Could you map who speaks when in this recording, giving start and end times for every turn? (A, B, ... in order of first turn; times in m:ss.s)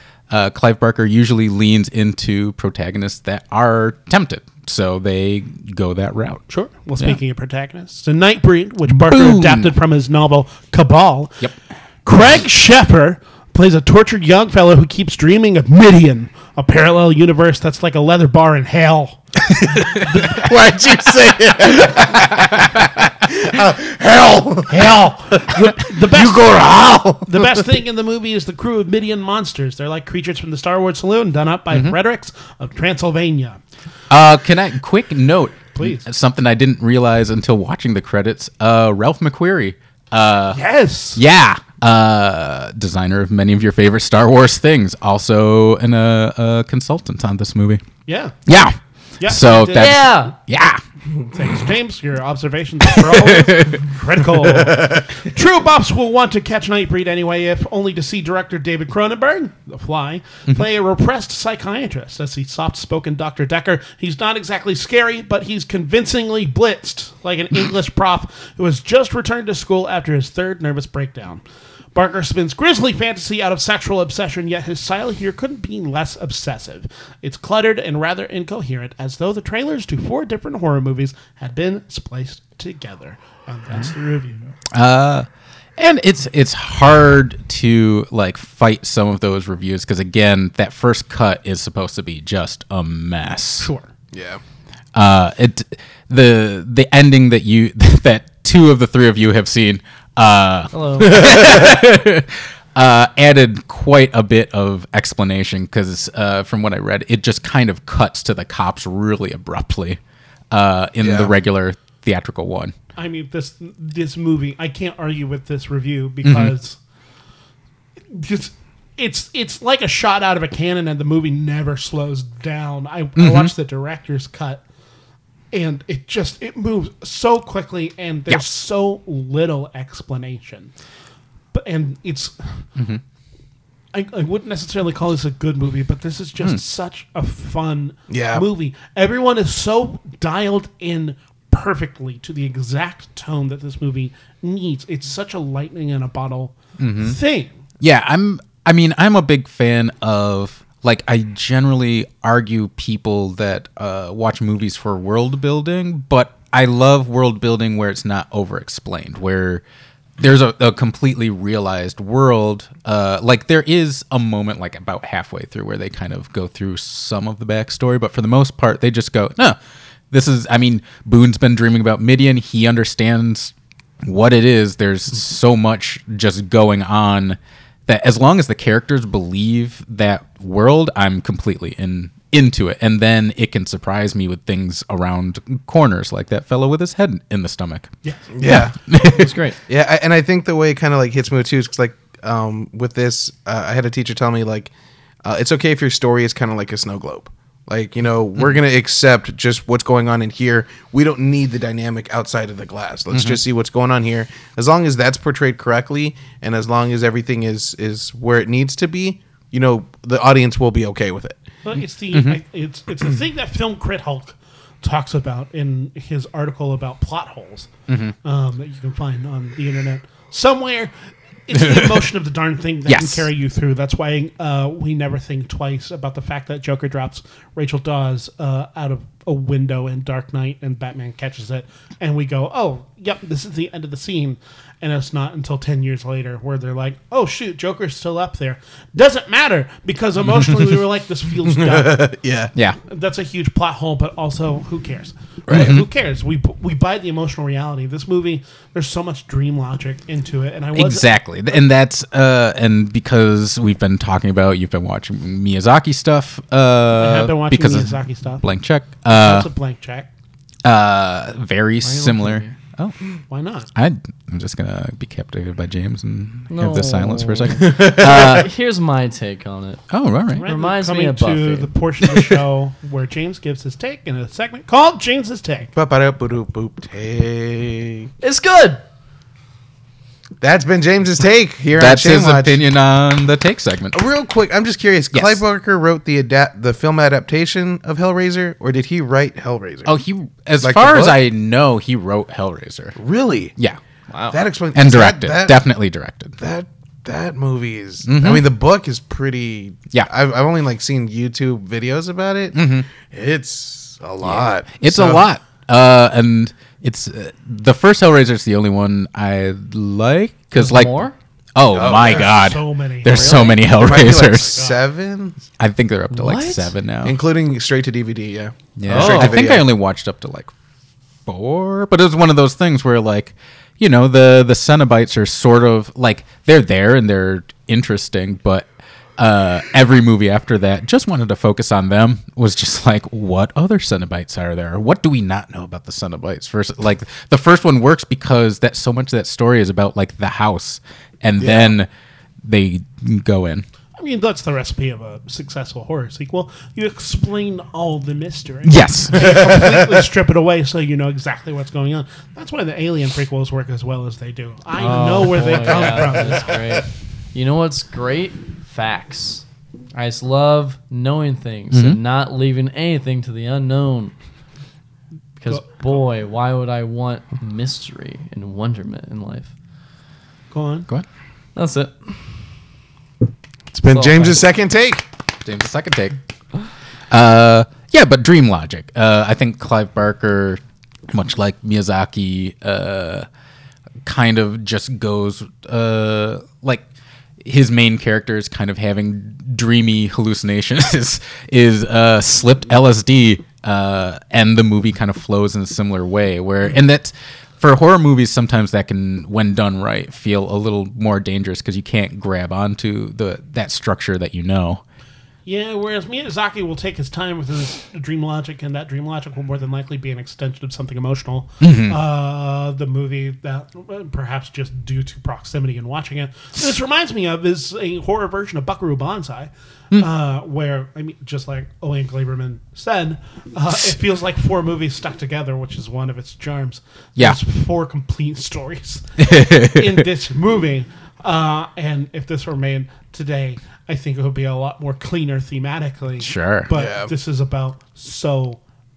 0:00.3-0:06.4 A
0:06.5-0:11.5 B
0:08.9-0:09.8 A
0:12.0-0:19.2 B
0:20.0-0:20.3 A
0:20.2-0:27.6 C
0:22.0-0:22.8 A
0:24.7-0:26.7 B
0:27.3-0:33.6 B
0:31.7-0:32.0 A
0:34.1-0:40.6 A
0:35.8-0:36.0 B
0:40.5-0:41.2 B
0:41.2-0:47.8 A
0:48.1-0:48.4 B
0:48.5-0:50.8 A
0:49.2-0:50.2 B
0:49.8-0:50.3 D
0:51.3-1:11.4 B
0:52.8-0:53.8 A
0:54.6-0:55.0 C
1:11.9-1:24.5 B
1:24.7-1:33.7 A
1:33.6-1:33.9 B
1:34.1-1:34.4 C
1:34.9-1:50.0 A
1:40.7-1:41.6 D
1:50.5-1:52.8 A
1:51.0-1:51.3 C
1:53.0-1:56.8 B
1:56.2-1:56.6 A
1:58.1-2:04.6 B
2:03.2-2:03.5 A
2:05.5-2:10.7 B
2:11.5-2:12.4 B
2:12.8-2:13.0 A
2:13.9-2:27.6 B
2:18.1-2:18.5 C
2:26.8-2:27.2 A
2:27.8-2:39.6 A
2:40.2-2:49.6 A
2:50.1-3:07.9 A
3:08.3-3:09.0 C
3:08.4-3:09.3 A
3:09.0-3:09.6 D
3:09.7-3:14.7 C
3:15.2-3:31.4 C
3:23.1-3:23.4 A
3:31.6-3:37.7 B
3:32.1-3:32.4 A
3:37.9-3:38.1 A
3:38.2-3:40.9 B
3:41.5-4:02.1 B
3:41.6-3:42.0 A
3:42.9-3:43.3 A
4:00.2-4:00.8 A
4:01.5-4:02.5 C
4:02.9-4:11.1 B
4:05.5-4:05.8 C
4:05.5-4:05.9 A
4:10.8-4:19.5 A
4:17.0-4:18.4 B
4:19.1-4:20.1 B
4:20.6-4:23.0 A
4:21.8-4:22.6 D
4:23.3-4:23.7 B
4:23.8-4:28.5 A
4:26.5-4:29.8 D
4:27.6-4:28.4 C
4:29.9-4:30.5 A
4:30.4-4:35.7 B
4:30.4-4:31.7 D
4:35.8-4:38.1 C
4:38.2-4:38.8 D
4:40.4-4:42.6 C
4:41.8-4:44.0 A
4:43.9-4:49.9 C
4:45.1-4:45.4 A
4:49.8-4:53.0 A
4:50.6-4:51.2 C
4:53.0-4:53.5 C
4:54.1-4:54.4 D
4:54.3-4:55.6 C
4:54.8-4:56.4 A
4:56.4-5:05.3 C
4:58.1-4:58.5 A
5:02.6-5:02.9 A
5:04.2-5:11.0 A
5:10.6-5:11.1 D
5:11.6-5:14.6 A
5:11.7-5:12.4 C
5:11.9-5:14.8 B
5:13.2-5:15.4 C
5:15.6-5:17.2 A
5:16.1-5:16.7 D
5:17.0-5:19.7 C
5:18.8-5:20.5 A
5:18.9-5:19.4 D
5:21.3-5:28.7 A
5:29.2-5:41.9 A
5:41.4-5:41.7 C
5:42.4-5:43.7 A
5:44.0-5:56.6 B
5:48.6-5:49.7 A
5:49.3-5:49.8 C
5:54.8-5:59.4 D
6:00.0-6:04.1 D
6:01.7-6:02.0 A
6:05.4-6:09.5 D
6:05.5-6:06.0 B
6:10.5-6:10.9 B
6:11.6-6:12.2 D
6:13.7-6:15.0 C
6:13.9-6:14.4 D
6:15.4-6:16.2 A
6:17.1-6:23.3 A
6:24.0-6:26.8 A
6:27.4-6:44.8 A
6:45.4-7:18.6 B
6:51.6-6:52.0 A
7:09.2-7:10.0 A
7:16.2-7:16.7 A
7:16.7-7:17.1 C